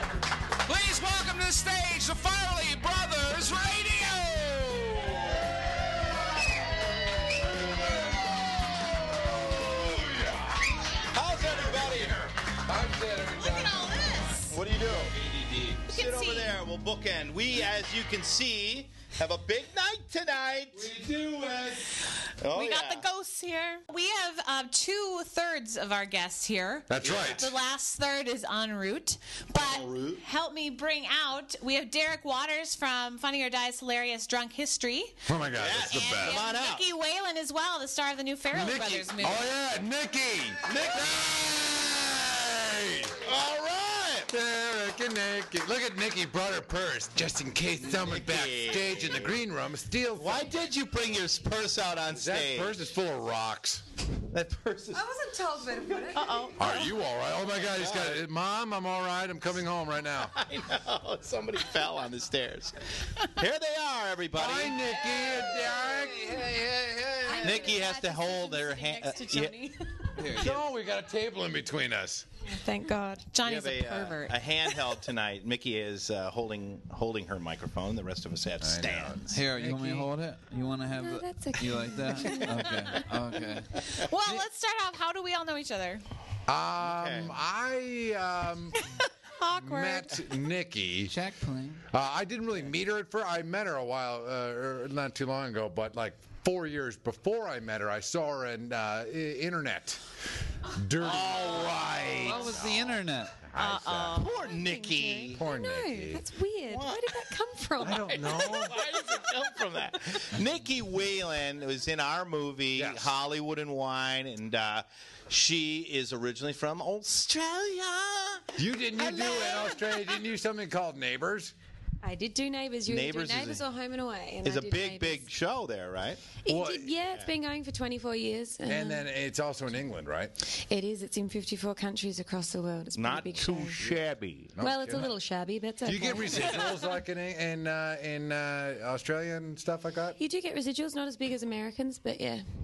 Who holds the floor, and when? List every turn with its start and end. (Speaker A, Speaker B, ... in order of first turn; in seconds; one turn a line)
Speaker A: 0.7-3.6
Speaker B: 0.7-5.5
Speaker B: 7.5-14.2
Speaker C: 11.1-12.2
Speaker D: 13.3-14.5
Speaker C: 14.4-15.2
Speaker B: 14.8-15.8
Speaker C: 15.8-20.9
Speaker D: 15.9-16.6
Speaker B: 20.7-22.1
Speaker C: 22.4-23.0
Speaker D: 22.4-35.3
Speaker B: 26.9-27.5
Speaker C: 27.0-27.5
Speaker C: 29.5-30.2
Speaker B: 35.2-36.4
Speaker C: 35.5-36.8
Speaker D: 35.9-39.5
Speaker B: 38.5-43.2
Speaker C: 40.7-41.3
Speaker C: 43.2-44.3
Speaker B: 44.3-50.5
Speaker C: 47.9-49.4
Speaker C: 50.1-52.7
Speaker B: 52.1-53.8
Speaker C: 54.2-55.0
Speaker E: 54.9-56.9
Speaker C: 55.9-56.7
Speaker B: 56.6-60.3
Speaker C: 57.8-58.2
Speaker C: 60.2-65.0
Speaker B: 64.3-66.4
Speaker A: 65.1-67.7
Speaker E: 67.2-70.2
Speaker C: 67.3-69.6
Speaker A: 70.2-70.6
Speaker C: 70.3-70.6
Speaker B: 70.3-72.2
Speaker E: 72.5-73.3
Speaker D: 73.3-74.9
Speaker C: 73.4-79.4
Speaker B: 78.6-80.1
Speaker A: 79.3-84.4
Speaker E: 80.9-83.0
Speaker D: 83.9-86.0
Speaker B: 86.5-89.0
Speaker C: 86.8-87.3
Speaker D: 88.9-90.2
Speaker B: 89.5-91.1
Speaker A: 91.0-91.8
Speaker B: 91.9-100.0
Speaker B: 100.7-104.2
Speaker C: 101.0-102.2
Speaker A: 101.4-103.4
Speaker D: 103.5-104.3
Speaker C: 104.1-105.4
Speaker E: 104.3-108.2
Speaker B: 105.3-106.2
Speaker C: 106.7-107.2
Speaker B: 107.8-108.8
Speaker C: 107.8-119.9
Speaker B: 112.8-113.1
Speaker B: 118.5-121.5
Speaker E: 122.0-125.3
Speaker C: 122.8-123.7
Speaker C: 124.4-126.3
Speaker E: 126.4-129.1
Speaker B: 126.5-126.9
Speaker B: 128.7-130.3
Speaker E: 130.5-133.9
Speaker C: 132.9-134.6
Speaker B: 134.6-135.1
Speaker E: 134.6-136.7
Speaker B: 135.8-140.2
Speaker E: 140.2-142.4